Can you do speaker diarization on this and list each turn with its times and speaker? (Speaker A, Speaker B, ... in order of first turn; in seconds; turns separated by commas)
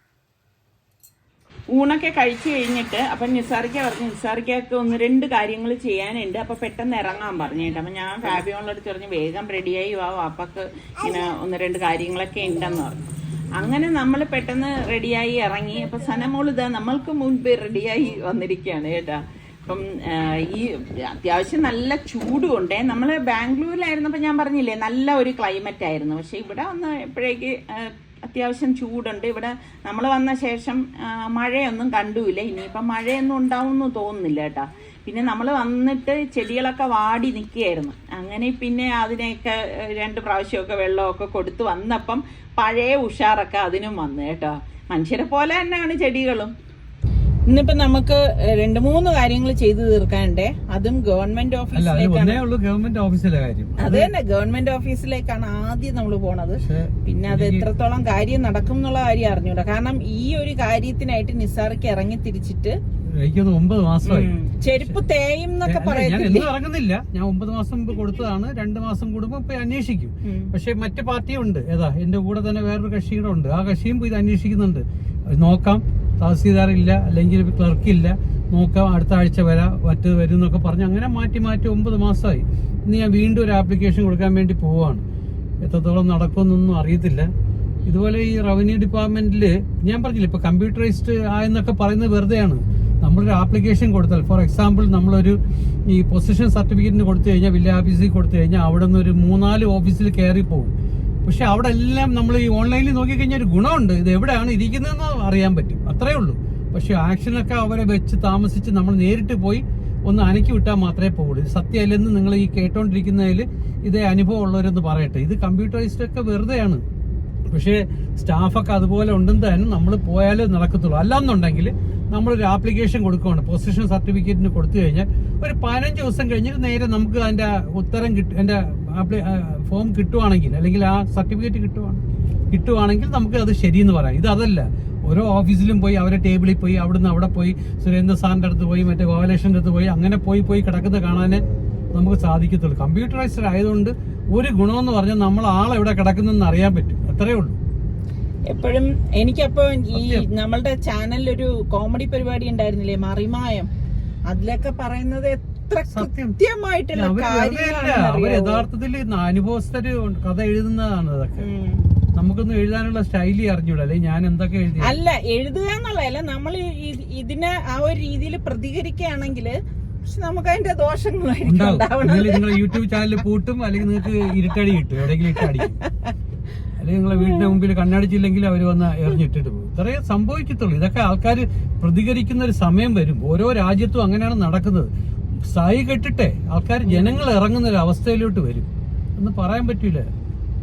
Speaker A: 1.7-46.5, Speaker A: 47.5-52.4, Speaker B: 51.8-54.1, Speaker A: 53.8-62.8, Speaker B: 56.6-57.7, Speaker B: 63.1-65.0, Speaker A: 64.0-66.5, Speaker B: 65.7-85.0, Speaker A: 70.2-70.5, Speaker B: 85.6-87.3, Speaker B: 87.9-100.7, Speaker B: 101.2-116.8, Speaker B: 117.5-141.4, Speaker B: 141.9-147.6, Speaker A: 148.5-153.7, Speaker B: 149.9-150.3, Speaker A: 154.3-158.7, Speaker B: 155.9-156.4, Speaker B: 156.9-161.5, Speaker A: 161.4-161.9, Speaker B: 162.2-165.0, Speaker A: 164.8-172.8, Speaker B: 171.4-175.8, Speaker A: 175.3-176.1, Speaker B: 176.8-184.9, Speaker A: 177.2-177.6, Speaker B: 185.5-190.1, Speaker A: 186.8-187.2